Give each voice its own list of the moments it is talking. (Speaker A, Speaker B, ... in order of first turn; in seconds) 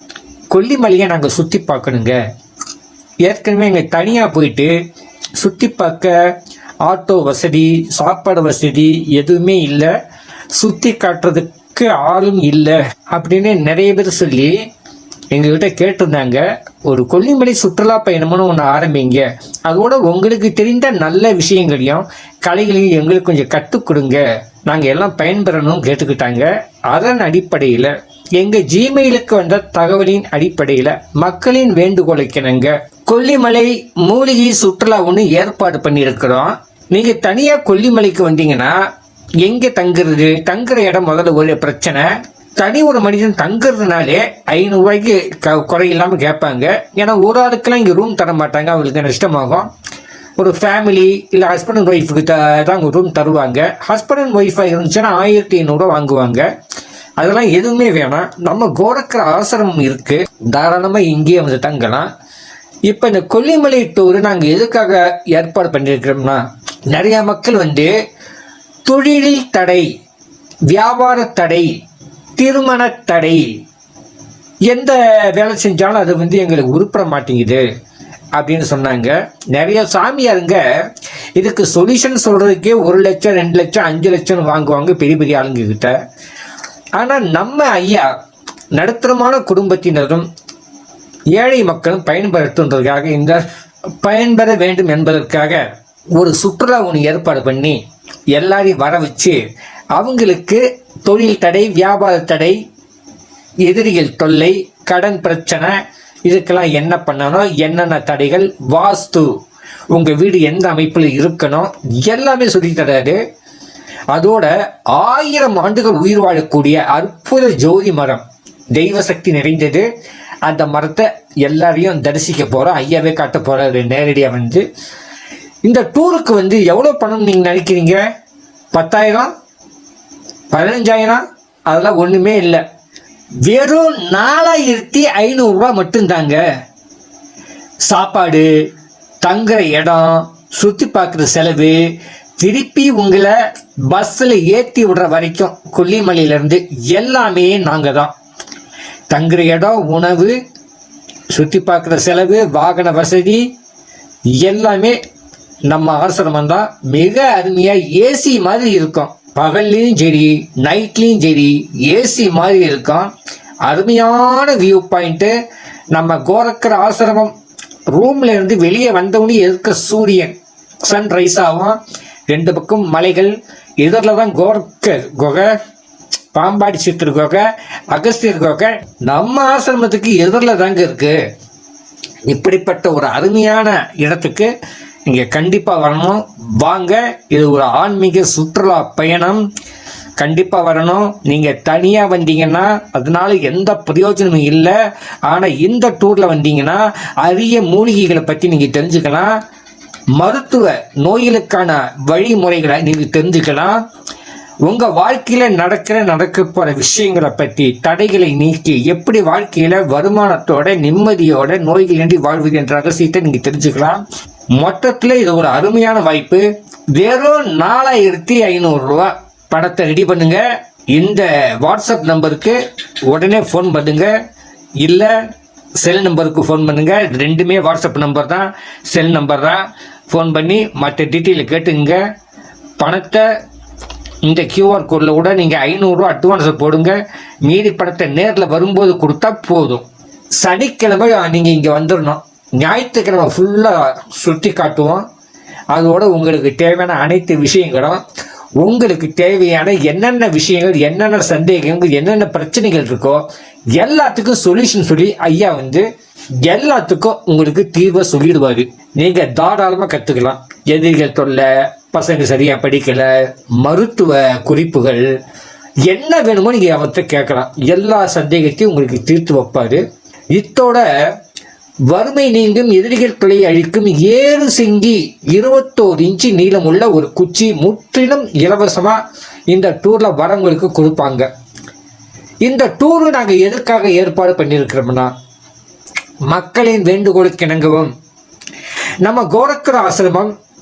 Speaker A: 0.5-2.2, 3.2-4.7, 5.4-6.1, 6.8-9.9, 10.5-14.6, 15.3-38.8, 39.4-49.7, 50.4-56.4, 57.2-62.1, 62.9-67.9, 68.8-69.9, 70.7-71.7, 72.4-73.5, 74.7-77.6, 78.3-80.6, 81.3-85.9, 87.0-88.1, 88.7-90.3, 91.3-93.4, 94.0-97.8, 98.3-99.4, 99.9-102.6, 103.7-109.3, 109.9-113.2, 114.1-119.9, 120.4-124.6, 125.6-128.0, 128.7-129.3, 130.5-132.6, 133.4-136.4, 137.8-138.5, 139.2-141.8, 142.4-143.3, 143.9-148.1, 149.1-150.3, 151.3-153.5, 154.4-155.0, 155.7-163.1, 163.7-165.3, 165.9-167.3, 167.9-170.3, 170.8-171.8, 172.3-175.5, 176.3-181.2, 182.3-184.5, 185.1-189.4, 190.2-194.7, 195.2-199.3, 200.2-203.8, 204.6-214.0, 214.6-216.4, 216.9-224.1, 224.8-225.2, 225.8-232.0, 232.8-233.2, 234.2-239.8, 240.4-245.0, 245.7-248.0, 248.6-253.2, 253.8-255.8, 256.5-265.1, 265.9-270.8, 271.9-281.3, 282.4-285.1, 286.3-287.9, 289.0-290.3